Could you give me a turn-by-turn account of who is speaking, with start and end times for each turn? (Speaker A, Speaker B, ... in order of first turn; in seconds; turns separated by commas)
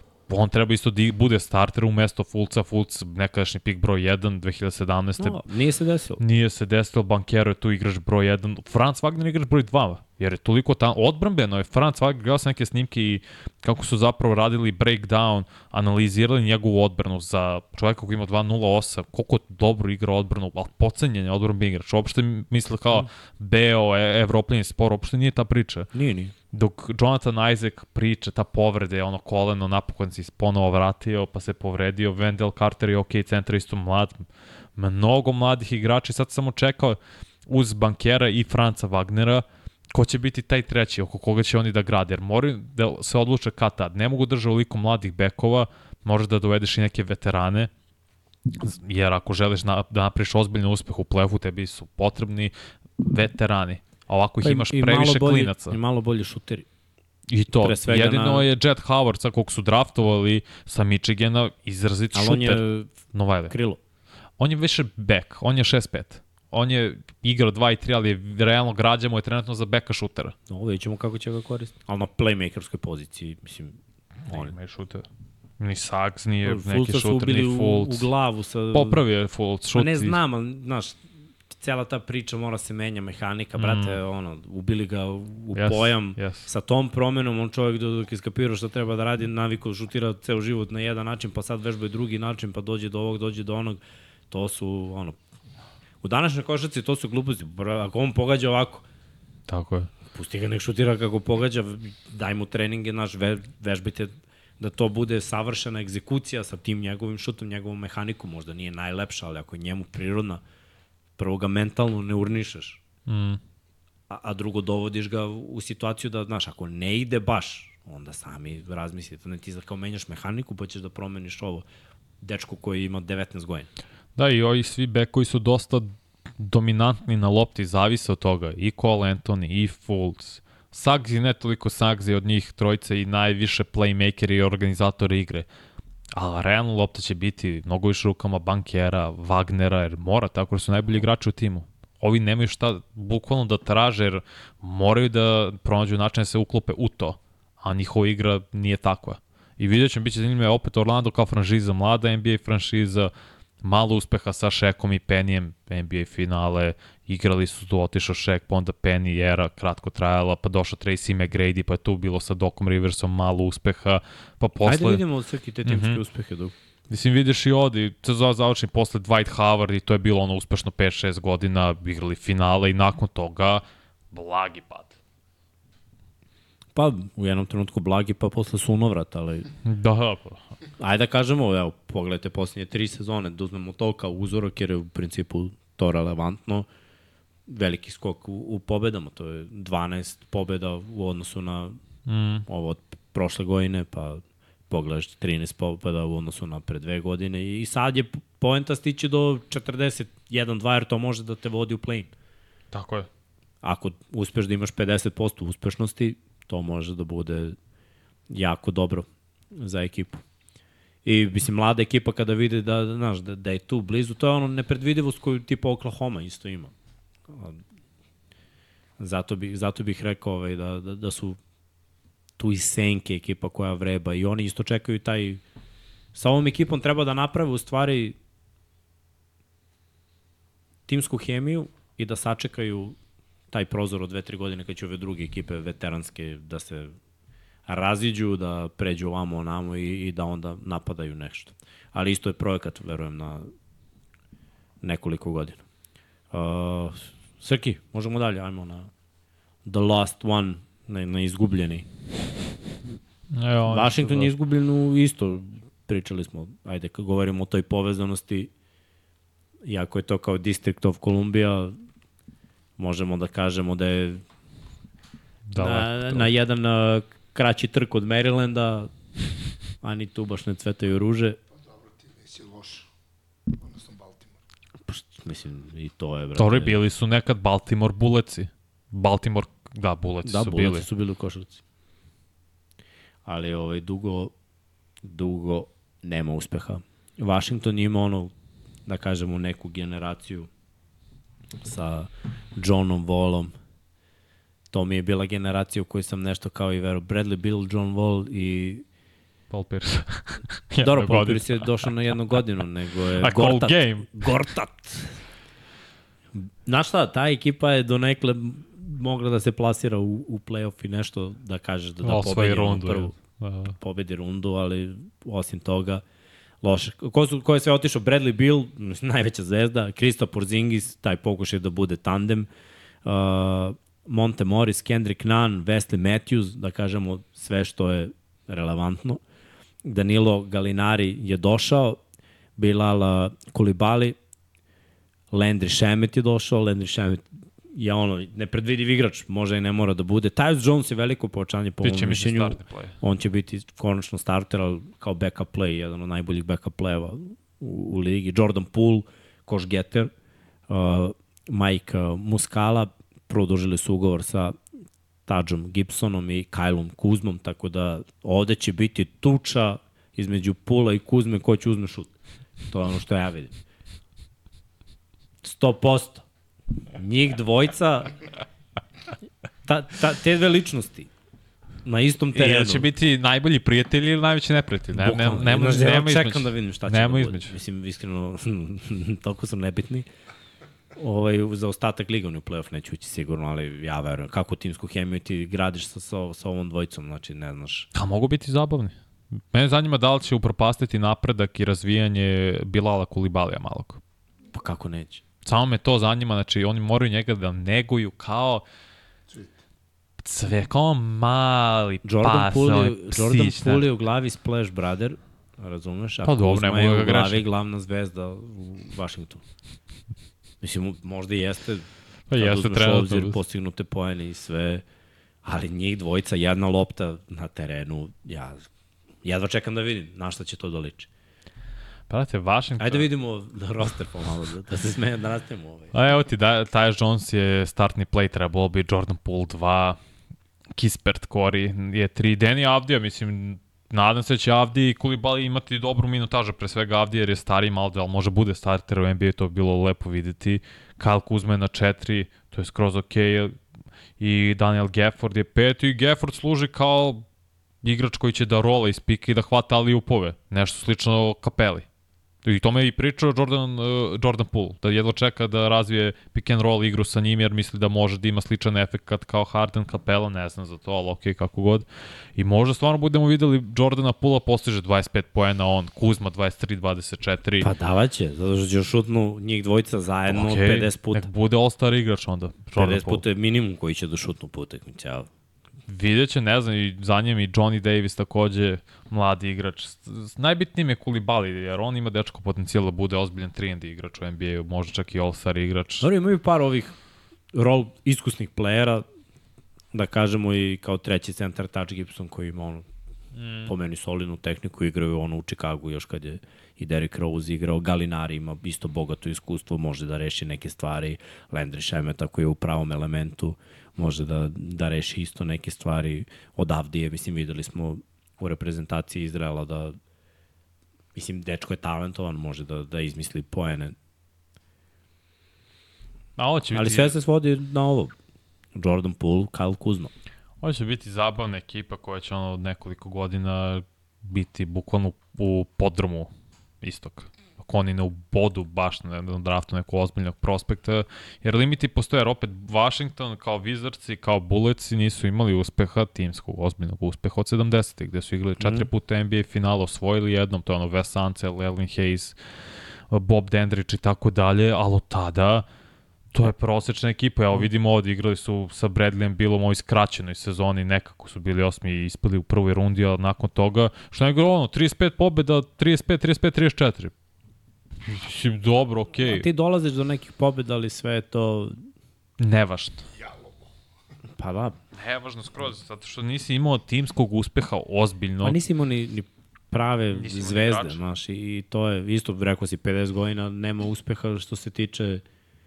Speaker A: 0.3-5.4, Speaker B: 5.2-6.2, Speaker A: 6.2-25.9, Speaker B: 25.9-26.3, Speaker A: 26.5-34.3, Speaker A: 34.8-47.7, Speaker A: 48.6-55.8, Speaker B: 54.4-56.7, Speaker A: 57.3-63.5, Speaker B: 57.6-58.5, Speaker B: 62.1-63.0, Speaker B: 63.5-63.8, Speaker A: 64.4-70.3, Speaker B: 70.5-74.5, Speaker A: 74.3-75.0, Speaker A: 75.6-78.1, Speaker B: 76.4-79.0, Speaker A: 78.7-80.2, Speaker B: 79.7-95.2, Speaker A: 83.6-84.0, Speaker A: 85.5-86.5, Speaker B: 96.0-98.8, Speaker A: 99.5-99.9, Speaker B: 100.1-110.4, Speaker B: 111.2-112.8, Speaker A: 113.1-113.4, Speaker B: 114.1-121.7, Speaker B: 122.2-123.7, Speaker A: 124.2-135.5, Speaker A: 136.1-153.1, Speaker A: 153.6-165.0, Speaker B: 164.6-166.5, Speaker A: 165.7-166.0, Speaker A: 166.9-174.9, Speaker B: 176.8-179.5, Speaker A: 179.7-180.4, Speaker B: 180.8-186.7, Speaker B: 187.5-191.8, Speaker A: 192.1-192.5, Speaker B: 192.5-202.1, Speaker A: 202.7-203.1, Speaker B: 203.6-207.6, Speaker B: 208.3-210.2, Speaker B: 211.1-216.7, Speaker B: 217.3-217.6, Speaker B: 219.0-221.4, Speaker B: 222.4-225.4, Speaker B: 226.1-228.2, Speaker B: 230.9-233.0, Speaker B: 233.5-236.9, Speaker B: 237.7-243.5, Speaker B: 244.8-245.6, Speaker B: 246.3-248.9, Speaker B: 249.7-251.9, Speaker A: 253.3-254.3, Speaker B: 253.7-258.5, Speaker B: 259.6-261.8, Speaker B: 262.8-264.2, Speaker A: 265.5-266.3, Speaker B: 265.6-268.9, Speaker B: 269.8-271.4, Speaker C: 271.5-272.9, Speaker C: 273.5-274.4, Speaker B: 274.9-276.8, Speaker A: 276.4-280.9, Speaker B: 280.2-281.6, Speaker B: 283.3-284.3, Speaker B: 285.0-288.3, Speaker B: 288.9-290.5, Speaker B: 291.6-293.5, Speaker B: 294.7-298.8, Speaker A: 299.5-302.4, Speaker B: 300.8-305.2, Speaker A: 303.2-304.4, Speaker B: 306.4-313.2, Speaker A: 312.0-313.8, Speaker B: 313.8-316.0, Speaker B: 316.6-322.5, Speaker B: 323.1-329.2, Speaker B: 329.9-332.0, Speaker B: 332.6-334.2, Speaker B: 335.3-350.1, Speaker A: 341.8-343.0, Speaker B: 350.7-354.6, Speaker B: 355.3-362.1, Speaker B: 362.7-363.6, Speaker B: 365.4-366.2, Speaker B: 366.9-368.2, Speaker B: 369.6-371.1, Speaker B: 371.9-372.9, Speaker A: 372.4-377.5, Speaker B: 374.9-380.1, Speaker B: 380.9-387.9, Speaker A: 387.9-388.9, Speaker A: 389.5-394.0, Speaker B: 394.5-395.2, Speaker A: 395.4-398.6, Speaker A: 400.2-403.9, Speaker B: 402.0-409.4, Speaker A: 406.2-407.4, Speaker B: 410.6-414.8, Speaker A: 412.3-413.4, Speaker B: 415.4-418.6, Speaker B: 419.2-421.1, Speaker A: 422.1-423.1, Speaker B: 422.8-425.9, Speaker A: 425.9-430.0, Speaker A: 430.8-443.6, Speaker A: 444.2-447.2, Speaker A: 447.8-451.9, Speaker A: 452.4-467.7, Speaker B: 467.6-471.3, Speaker A: 470.3-473.2, Speaker B: 472.8-475.3, Speaker A: 475.9-486.1, Speaker B: 486.0-486.9, Speaker B: 487.5-489.1, Speaker B: 489.9-492.9, Speaker A: 493.4-493.7, Speaker B: 493.7-510.0, Speaker B: 511.1-514.0, Speaker A: 516.4-517.2, Speaker B: 516.7-518.1, Speaker B: 518.8-520.1, Speaker A: 520.6-526.3, Speaker A: 526.8-542.4, Speaker B: 538.6-538.9, Speaker A: 543.1-545.7, Speaker A: 546.3-557.1, Speaker A: 558.1-559.5, Speaker B: 559.2-561.8, Speaker A: 562.4-563.1, Speaker C: 563.1-563.7, Speaker B: 564.4-564.8, Speaker A: 565.0-568.6, Speaker B: 568.4-575.2, Speaker A: 570.1-571.0